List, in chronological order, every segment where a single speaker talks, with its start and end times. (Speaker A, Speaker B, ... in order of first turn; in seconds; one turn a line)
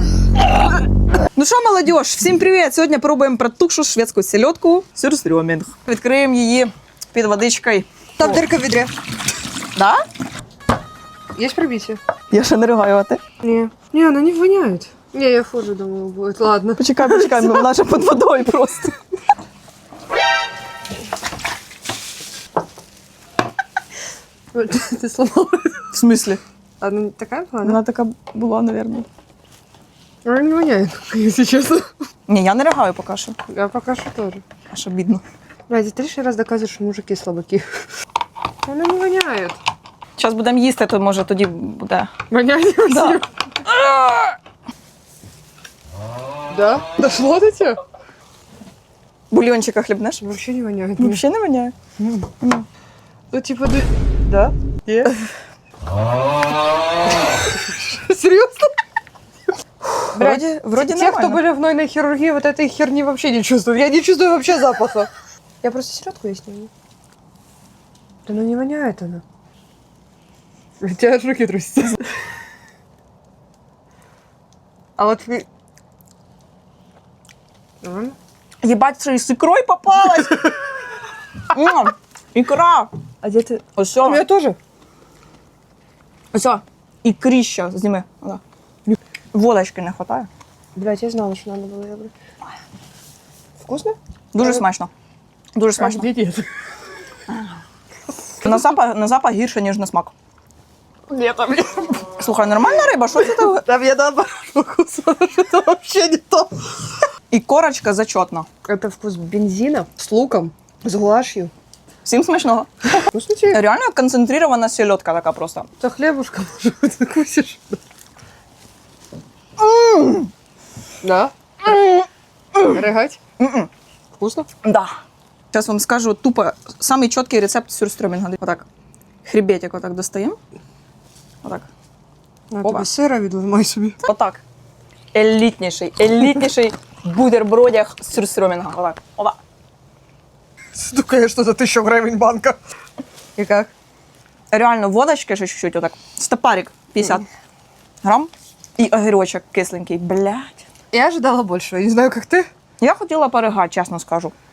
Speaker A: 1.4-8.4
Speaker B: 8.2-8.9
Speaker A: 9.7-10.0
Speaker B: 11.3-12.0
Speaker A: 12.3-13.2
Speaker B: 13.4-17.7
Speaker A: 16.8-18.9
Speaker B: 24.5-25.9
Speaker A: 25.9-26.4
Speaker B: 26.8-27.8
Speaker A: 27.6-29.1
Speaker B: 30.2-31.9
Speaker A: 32.3-33.4
Speaker B: 33.5-34.4
Speaker A: 34.7-35.2
Speaker B: 35.7-37.6
Speaker B: 38.6-39.6
Speaker A: 40.2-42.1
Speaker B: 42.3-44.1
Speaker A: 42.9-43.2
Speaker B: 46.5-47.8
Speaker A: 49.3-50.2
Speaker B: 50.2-51.2
Speaker A: 51.0-51.7
Speaker B: 52.0-52.3
Speaker A: 52.4-52.6
Speaker B: 53.3-55.1
Speaker B: 57.3-58.7
Speaker B: 60.1-65.1
Speaker A: 60.1-61.4
Speaker B: 65.6-66.7
Speaker B: 68.2-69.2
Speaker B: 70.8-72.0
Speaker B: 75.0-75.5
Speaker B: 77.8-78.2
Speaker A: 78.6-80.5
Speaker A: 81.5-82.9
Speaker B: 83.2-84.6
Speaker A: 83.8-84.2
Speaker A: 86.3-88.4
Speaker A: 89.3-90.3
Speaker B: 90.8-92.1
Speaker B: 93.6-94.6
Speaker A: 94.3-94.9
Speaker A: 95.5-96.1
Speaker B: 95.8-96.5
Speaker A: 98.4-100.1
Speaker B: 101.1-102.1
Speaker A: 102.1-103.6
Speaker B: 103.2-106.7
Speaker A: 107.3-108.5
Speaker B: 108.7-111.5
Speaker A: 112.0-115.7
Speaker B: 113.0-113.6
Speaker B: 115.8-117.8
Speaker A: 119.6-120.3
Speaker B: 121.0-121.3
Speaker A: 121.6-122.7
Speaker B: 122.6-123.2
Speaker A: 123.4-123.7
Speaker B: 124.2-124.5
Speaker A: 124.6-124.9
Speaker A: 125.5-128.6
Speaker A: 129.2-130.4
Speaker A: 131.4-131.7
Speaker B: 132.5-134.0
Speaker A: 134.0-134.4
Speaker A: 135.1-139.4
Speaker B: 140.8-142.6
Speaker B: 143.3-143.7
Speaker A: 144.5-147.2
Speaker A: 148.0-150.7
Speaker B: 150.9-152.5
Speaker A: 152.8-154.3